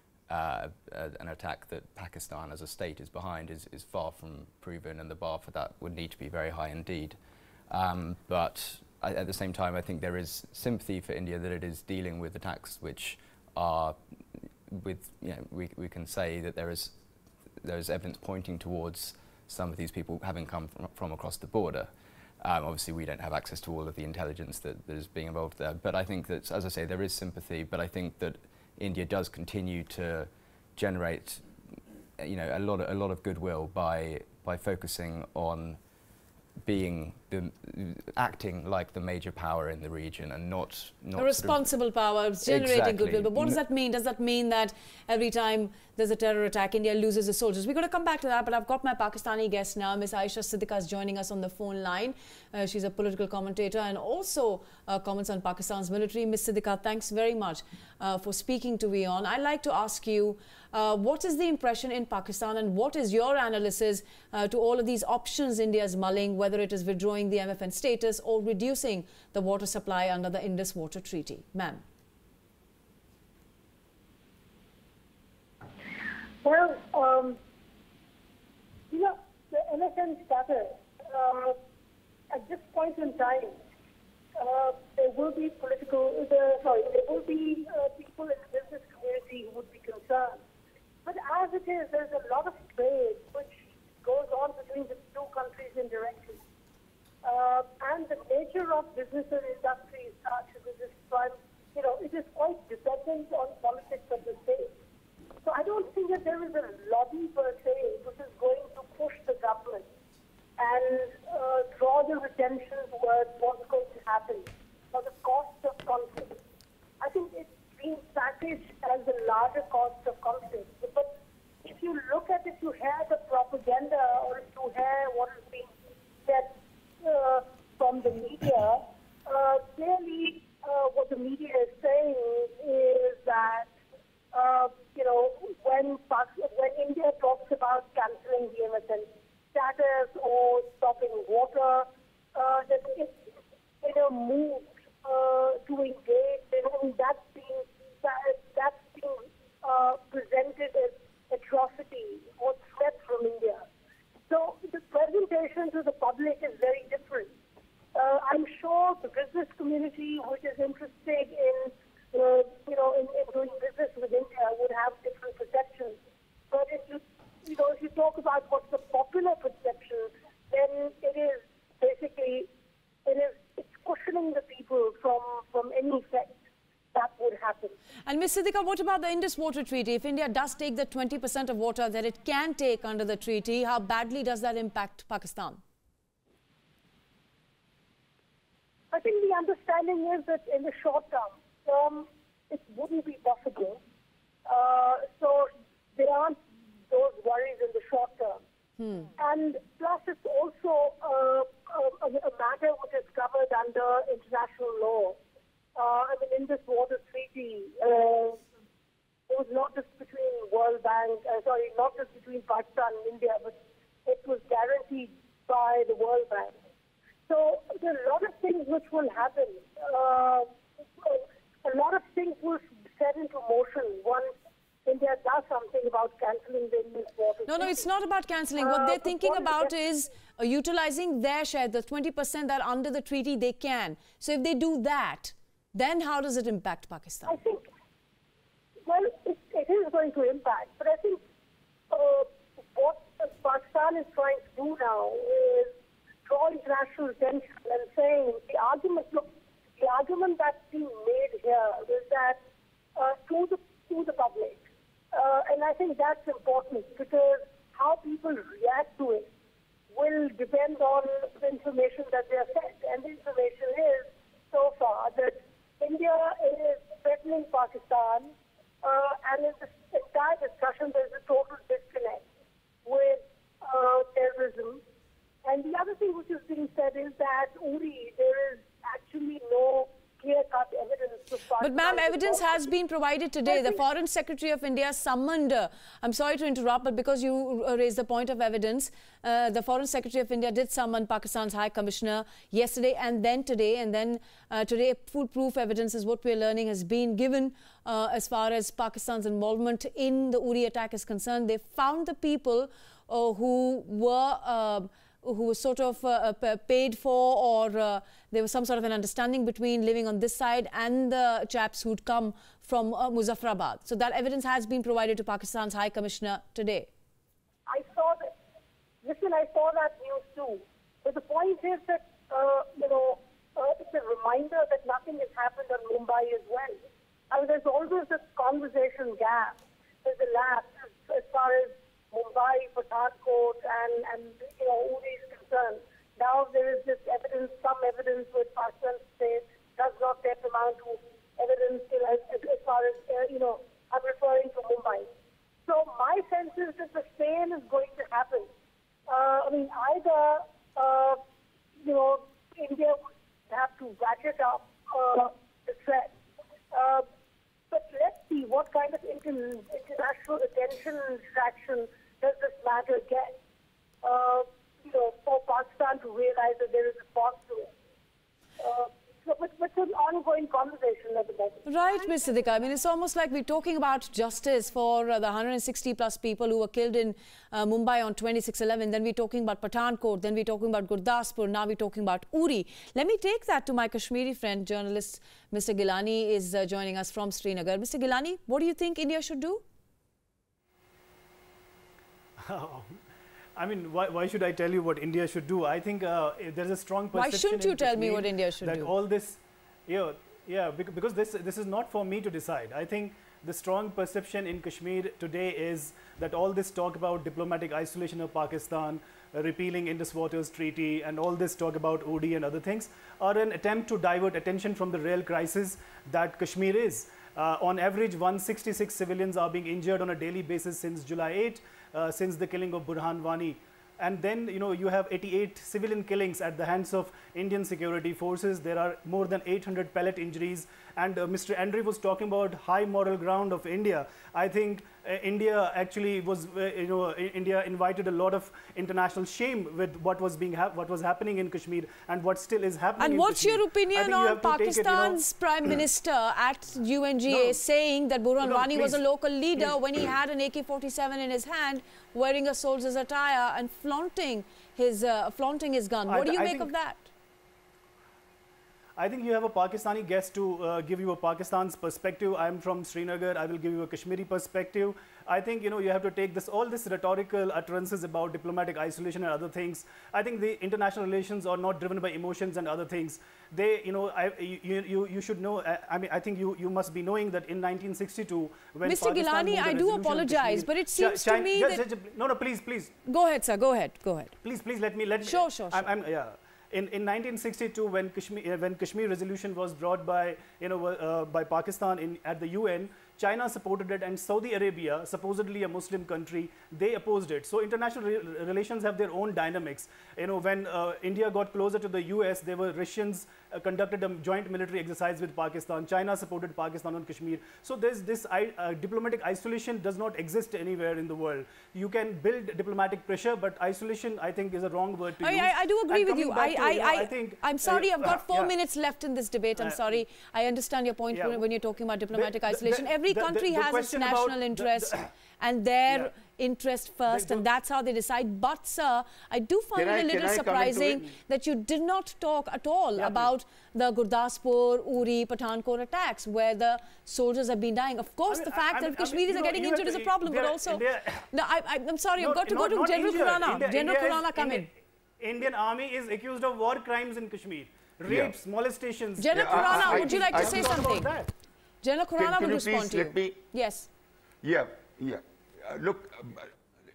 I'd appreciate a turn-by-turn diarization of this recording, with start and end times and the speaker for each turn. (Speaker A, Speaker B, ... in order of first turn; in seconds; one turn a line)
Speaker A: 0.3-7.2
Speaker A: 7.7-14.0
Speaker A: 14.7-17.0
Speaker A: 17.6-31.4
Speaker A: 32.2-35.8
Speaker A: 36.6-41.7
Speaker B: 41.2-71.8
Speaker A: 42.4-43.6
Speaker C: 76.4-77.4
Speaker C: 78.9-81.6
Speaker C: 82.3-83.6
Speaker C: 84.4-90.4
Speaker C: 91.0-96.4
Speaker C: 97.2-104.7
Speaker C: 105.4-109.9
Speaker C: 110.6-116.4
Speaker C: 117.0-121.1
Speaker C: 121.6-125.7
Speaker C: 126.2-133.7
Speaker C: 134.3-143.2
Speaker C: 143.8-153.6
Speaker C: 154.3-157.3
Speaker C: 157.9-166.0
Speaker C: 166.5-172.5
Speaker C: 173.1-176.3
Speaker C: 176.9-177.8
Speaker B: 178.1-185.6
Speaker C: 188.9-193.8
Speaker C: 194.4-196.4
Speaker C: 196.9-198.4
Speaker B: 198.8-199.1
Speaker C: 199.2-205.2
Speaker C: 205.8-208.4
Speaker C: 209.3-213.5
Speaker C: 214.0-216.6
Speaker C: 217.3-224.3
Speaker C: 224.8-227.8
Speaker B: 227.5-237.4
Speaker C: 228.6-229.7
Speaker C: 237.2-237.6
Speaker C: 238.8-241.2
Speaker C: 241.9-245.7
Speaker C: 246.2-252.4
Speaker C: 252.9-259.3
Speaker C: 259.9-272.2
Speaker C: 272.8-274.8
Speaker C: 275.4-282.6
Speaker B: 281.6-316.9
Speaker C: 283.5-283.8
Speaker C: 317.7-318.3
Speaker C: 319.0-345.1
Speaker C: 345.6-348.5
Speaker C: 349.1-351.2
Speaker C: 351.8-356.1
Speaker C: 356.7-357.1
Speaker C: 357.7-363.4
Speaker C: 364.0-367.7
Speaker C: 368.6-372.1
Speaker B: 371.6-389.6
Speaker D: 392.4-393.0
Speaker D: 393.6-445.2
Speaker B: 397.1-398.9
Speaker B: 443.0-457.1
Speaker D: 447.3-447.6
Speaker D: 448.4-449.0
Speaker D: 449.6-450.1
Speaker D: 456.1-456.7
Speaker D: 459.0-482.9
Speaker B: 478.8-481.9
Speaker B: 483.1-484.4
Speaker D: 484.4-518.5
Speaker B: 485.2-486.0
Speaker B: 515.2-544.7
Speaker D: 521.1-521.4
Speaker D: 522.1-525.1
Speaker D: 527.1-527.4
Speaker E: 529.8-531.1
Speaker D: 533.0-533.3
Speaker D: 538.3-541.2
Speaker D: 542.2-551.3
Speaker E: 548.1-548.3
Speaker B: 549.2-551.1
Speaker E: 549.3-550.7
Speaker B: 551.8-553.9
Speaker E: 552.2-553.4
Speaker E: 554.4-556.5